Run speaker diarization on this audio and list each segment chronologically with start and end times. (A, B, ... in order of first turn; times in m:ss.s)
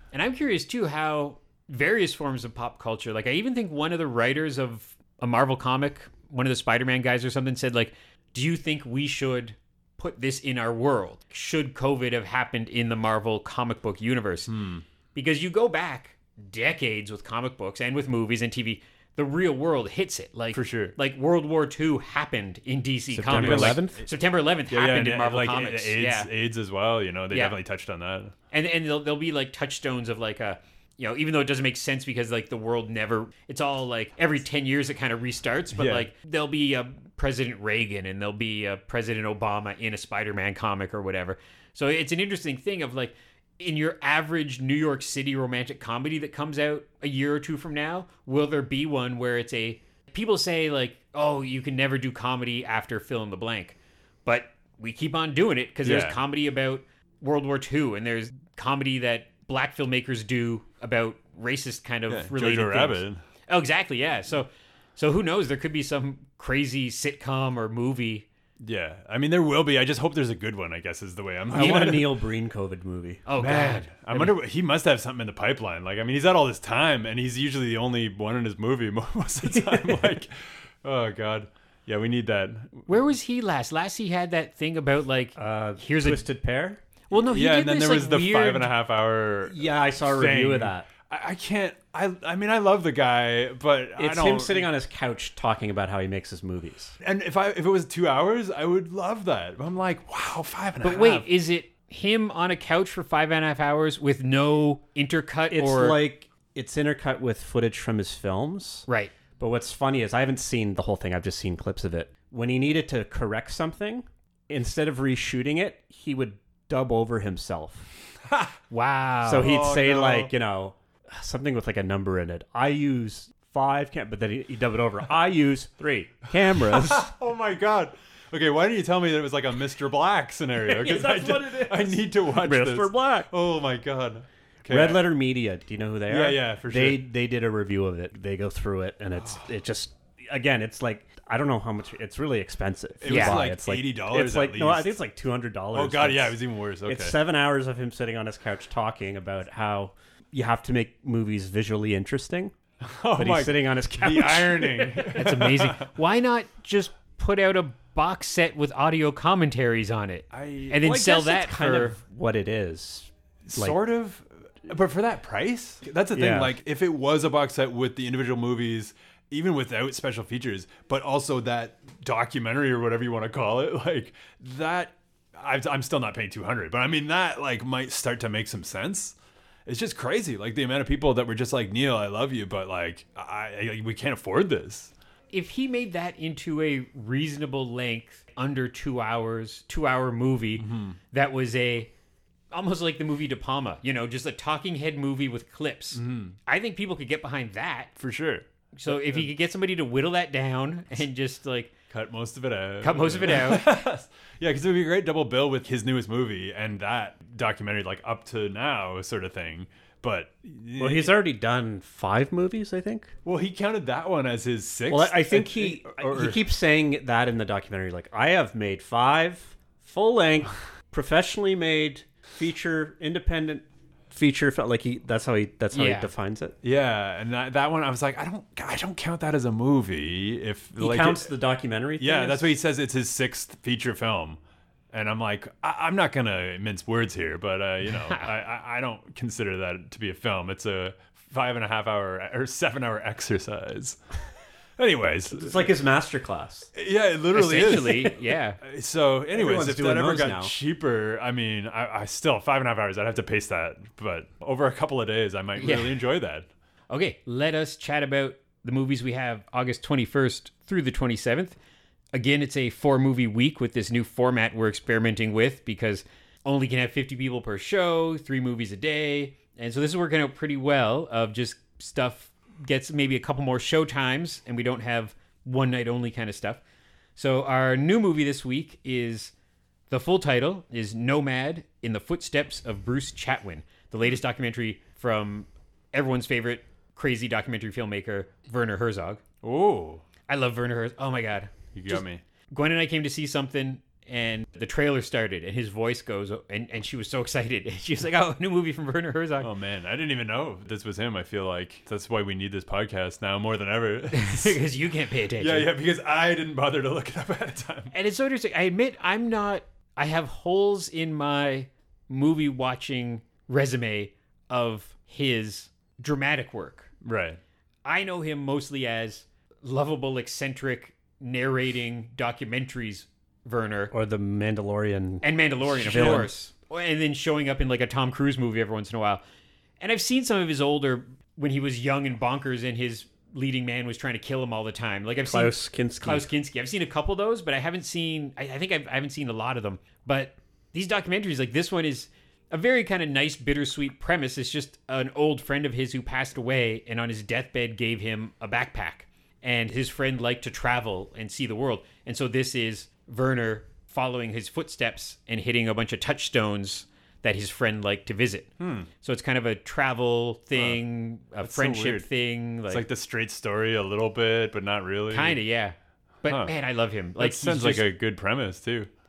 0:00.1-0:14.5 A
0:14.5-0:14.8 B
0:15.2-0:26.3 A
0:20.5-0:21.0 B
0:23.1-0:24.0 C
0:23.3-0:24.1 B
0:24.7-0:28.3 B
0:27.3-0:27.6 A
0:28.5-1:08.3 A
0:35.8-0:36.1 B
0:55.8-0:56.2 B
1:02.1-1:03.2 B
1:08.6-1:12.2 B
1:11.5-1:13.2 C
1:11.5-1:12.0 A
1:13.3-1:14.3 A
1:13.4-1:22.9 B
1:19.4-1:20.2 C
1:22.9-1:26.2 A
1:25.4-1:26.8 C
1:27.1-1:28.7 A
1:27.2-1:34.7 B
1:29.5-1:30.9 C
1:34.0-1:37.0 C
1:37.0-1:41.3 B
1:40.8-1:46.0 A
1:45.5-1:48.9 C
1:48.9-1:49.1 A
1:49.4-1:57.9 C
1:58.3-1:58.5 B
1:58.7-1:59.5 A
1:59.2-2:07.1 C
1:59.4-2:00.3 B
2:06.6-2:15.1 B
2:10.6-2:13.3 C
2:14.7-2:32.6 C
2:16.1-2:17.0 B
2:23.0-2:25.0 B
2:23.1-2:23.4 A
2:25.7-2:27.2 B
2:32.8-2:35.9 B
2:33.2-2:35.0 C
2:35.0-2:42.0 A
2:40.3-2:41.0 B
2:40.8-2:43.8 C
2:43.5-2:59.2 B
2:46.1-2:46.5 C
2:59.7-3:04.9 B
3:05.3-3:11.9 A
3:10.6-3:11.0 B
3:12.5-3:17.9 A
3:15.9-3:16.4 B
3:18.0-3:19.3 B
3:18.8-3:21.7 A
3:21.9-3:31.2 B
3:22.8-3:23.7 A
3:30.8-3:33.1 C
3:33.2-3:36.4 B
3:34.9-3:46.6 C
3:45.7-3:46.1 A
3:46.6-3:51.3 B
3:50.8-3:52.5 C
3:52.0-3:54.4 B
3:54.9-4:04.0 B
3:58.0-3:58.3 A
4:04.8-4:05.7 B
4:05.3-4:06.7 C
4:06.8-4:16.5 B
4:07.3-4:08.6 A
4:09.3-4:10.5 C
4:15.6-4:16.0 A
4:16.9-4:21.6 A
4:22.1-4:36.6 A
4:37.2-4:39.3 A
4:39.9-4:49.2 A
4:49.4-4:50.0 B
4:50.3-4:59.5 A
4:51.7-4:52.2 B
4:59.4-5:04.6 B
5:04.1-5:05.7 A
5:05.4-5:07.9 B
5:07.9-5:16.9 A
5:17.0-5:17.4 B
5:17.8-5:23.9 A
5:23.9-5:26.3 C
5:25.2-5:29.2 A
5:25.9-5:26.2 B
5:29.8-6:02.8 A
5:35.2-5:36.3 C
5:58.6-5:58.9 B
6:00.6-6:00.8 B
6:01.4-6:02.1 B
6:02.7-6:05.4 B
6:05.1-6:07.9 A
6:06.3-6:06.5 B
6:07.2-6:08.9 B